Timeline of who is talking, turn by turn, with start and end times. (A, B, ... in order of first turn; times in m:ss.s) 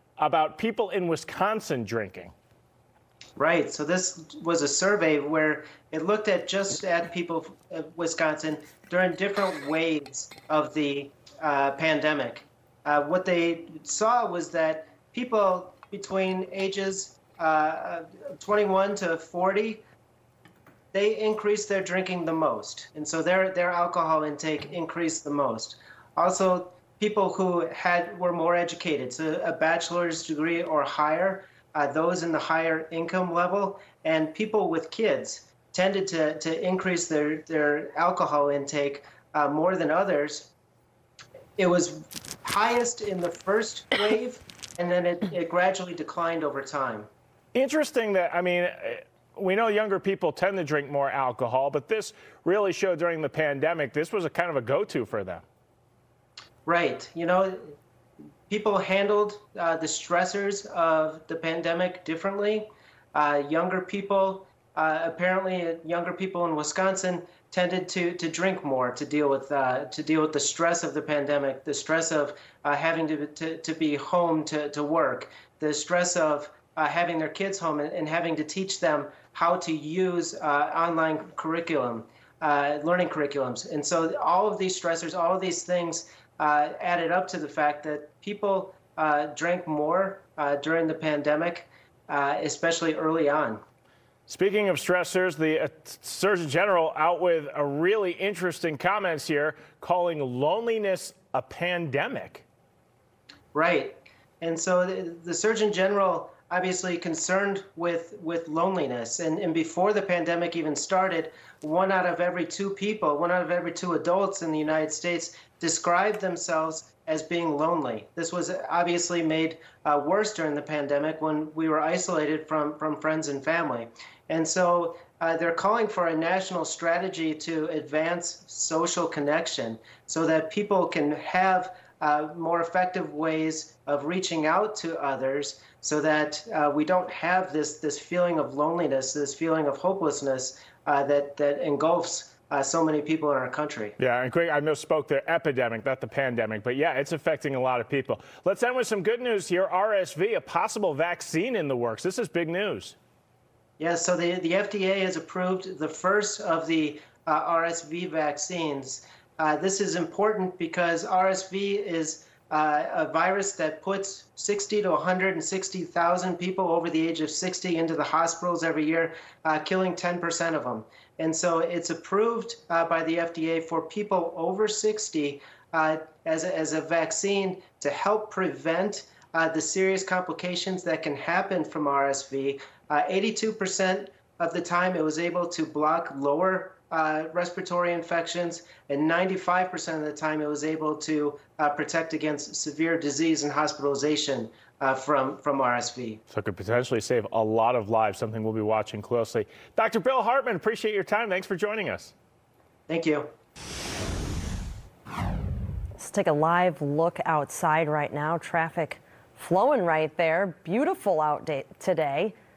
0:00.2-0:02.3 A
0:03.4-0:19.8 B
0:20.9-0:40.5 B
0:41.6-0:47.1 B
0:47.6-0:55.4 A
0:56.7-0:57.8 B
0:58.5-1:33.6 B
1:34.3-1:42.4 A
1:43.5-2:23.9 B
2:24.0-2:33.0 A
2:33.8-3:16.2 B
3:16.3-3:22.1 A
3:22.9-3:23.3 B
3:26.0-3:32.3 C